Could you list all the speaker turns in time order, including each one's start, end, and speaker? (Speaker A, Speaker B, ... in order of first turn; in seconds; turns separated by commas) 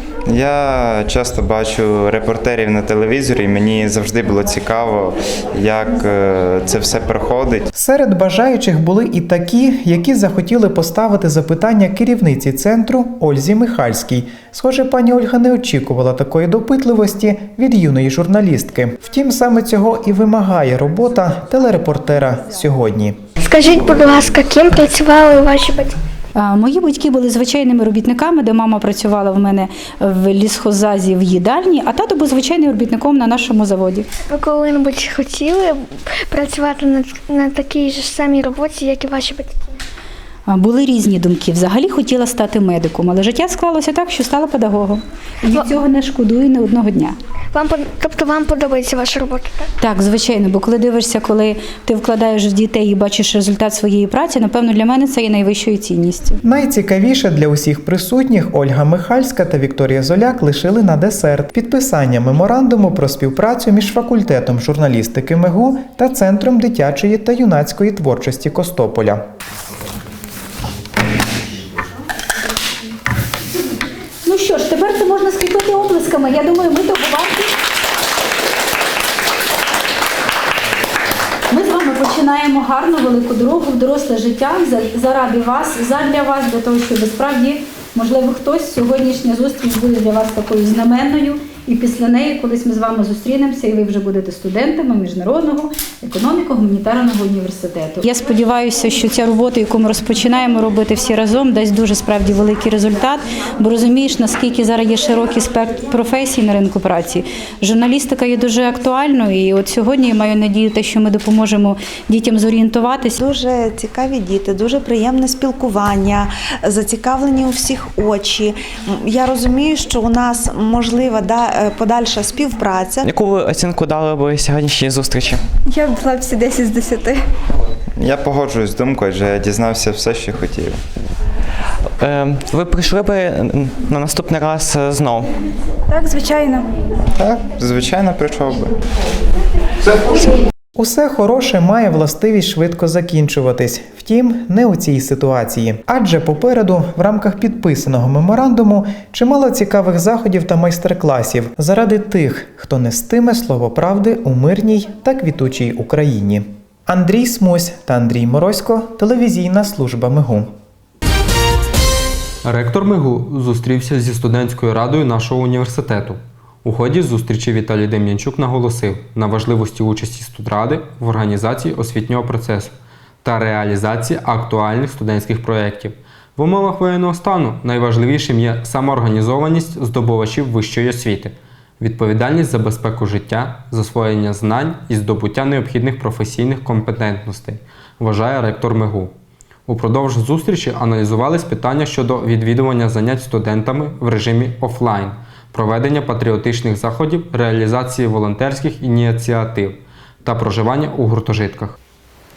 Speaker A: 0.2-7.7, Speaker B: 7.7-23.2, Speaker C: 23.5-25.9, Speaker D: 26.3-34.0, Speaker C: 36.3-38.0, Speaker C: 38.9-39.3, Speaker D: 40.5-47.1, Speaker C: 49.1-49.5, Speaker D: 49.8-56.4, Speaker B: 56.4-69.2, Speaker D: 74.2-77.5, Speaker D: 81.5-113.2, Speaker E: 113.2-123.1, Speaker F: 123.0-125.4, Speaker G: 125.7-127.2, Speaker A: 128.0-130.8, Speaker F: 132.0-135.3, Speaker G: 135.9-136.6, Speaker A: 137.2-138.7, Speaker B: 140.8-160.5, Speaker H: 162.4-189.1, Speaker H: 189.7-201.8